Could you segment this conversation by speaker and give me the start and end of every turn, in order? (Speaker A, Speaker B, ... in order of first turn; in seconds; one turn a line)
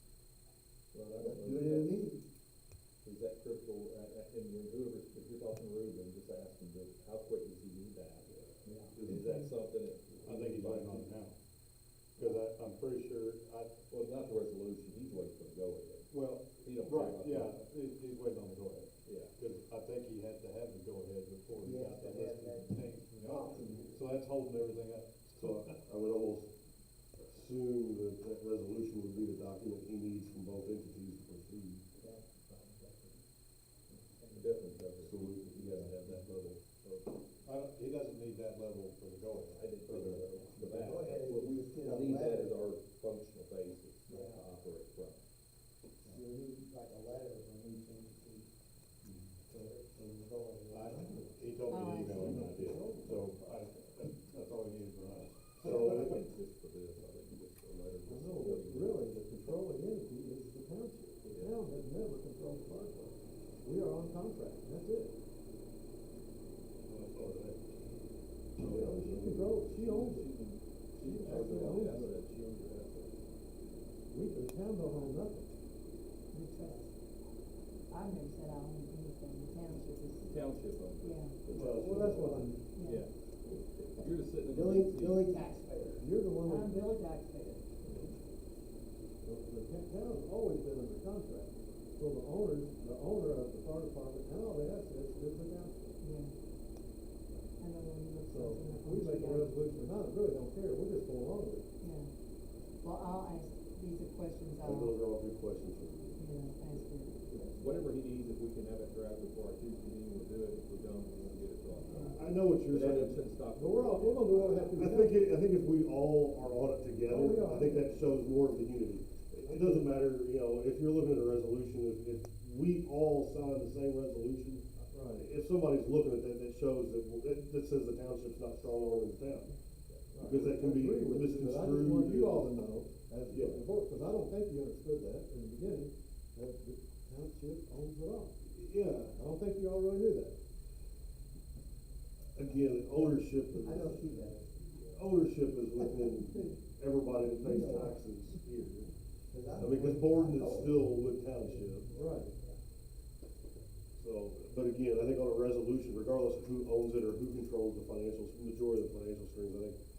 Speaker A: 0.9-2.0
Speaker B: 1.2-2.2
Speaker A: 3.0-11.1
Speaker B: 8.6-9.0
Speaker C: 9.1-9.5
Speaker D: 10.2-11.3
Speaker D: 12.2-13.7
Speaker B: 12.2-12.4
Speaker A: 13.9-17.5
Speaker D: 16.1-25.8
Speaker A: 19.0-19.3
Speaker B: 21.6-24.2
Speaker E: 25.6-26.5
Speaker E: 27.2-31.9
Speaker B: 31.9-33.2
Speaker B: 33.9-34.7
Speaker A: 34.3-37.2
Speaker E: 34.9-35.8
Speaker D: 37.4-40.7
Speaker A: 39.5-45.2
Speaker B: 40.3-42.6
Speaker B: 44.1-44.5
Speaker B: 46.0-48.5
Speaker D: 49.0-49.3
Speaker B: 49.4-51.6
Speaker D: 50.7-56.1
Speaker C: 51.7-52.5
Speaker F: 52.1-53.2
Speaker A: 55.6-59.0
Speaker F: 58.0-65.1
Speaker A: 61.3-61.6
Speaker D: 66.9-67.5
Speaker E: 68.6-69.5
Speaker F: 68.6-70.3
Speaker A: 69.7-73.2
Speaker F: 71.0-72.2
Speaker F: 74.1-75.5
Speaker C: 76.3-76.9
Speaker B: 76.6-76.9
Speaker C: 77.9-80.4
Speaker A: 80.2-82.1
Speaker C: 81.0-81.3
Speaker E: 81.5-82.5
Speaker F: 81.6-82.6
Speaker C: 82.7-83.0
Speaker A: 82.8-85.5
Speaker B: 84.5-86.1
Speaker F: 86.0-86.8
Speaker C: 86.4-87.3
Speaker B: 87.2-87.6
Speaker F: 89.2-95.8
Speaker C: 96.0-96.3
Speaker C: 97.6-99.6
Speaker F: 98.2-101.6
Speaker C: 101.8-102.1
Speaker C: 102.8-105.0
Speaker E: 104.6-106.2
Speaker C: 106.2-107.2
Speaker B: 107.3-107.6
Speaker A: 107.5-114.7
Speaker C: 111.8-112.2
Speaker E: 112.1-113.2
Speaker F: 113.5-115.2
Speaker E: 114.3-129.5
Speaker F: 117.1-118.0
Speaker F: 119.5-119.9
Speaker F: 124.9-125.2
Speaker F: 130.1-138.3
Speaker E: 130.3-132.5
Speaker E: 133.3-133.6
Speaker E: 138.4-139.1
Speaker F: 139.1-140.3
Speaker E: 142.3-144.3
Speaker B: 142.9-145.2
Speaker E: 144.8-148.9
Speaker B: 145.7-146.1
Speaker B: 147.4-148.0
Speaker B: 149.3-152.6
Speaker E: 149.6-151.9
Speaker F: 151.9-152.3
Speaker E: 153.9-159.8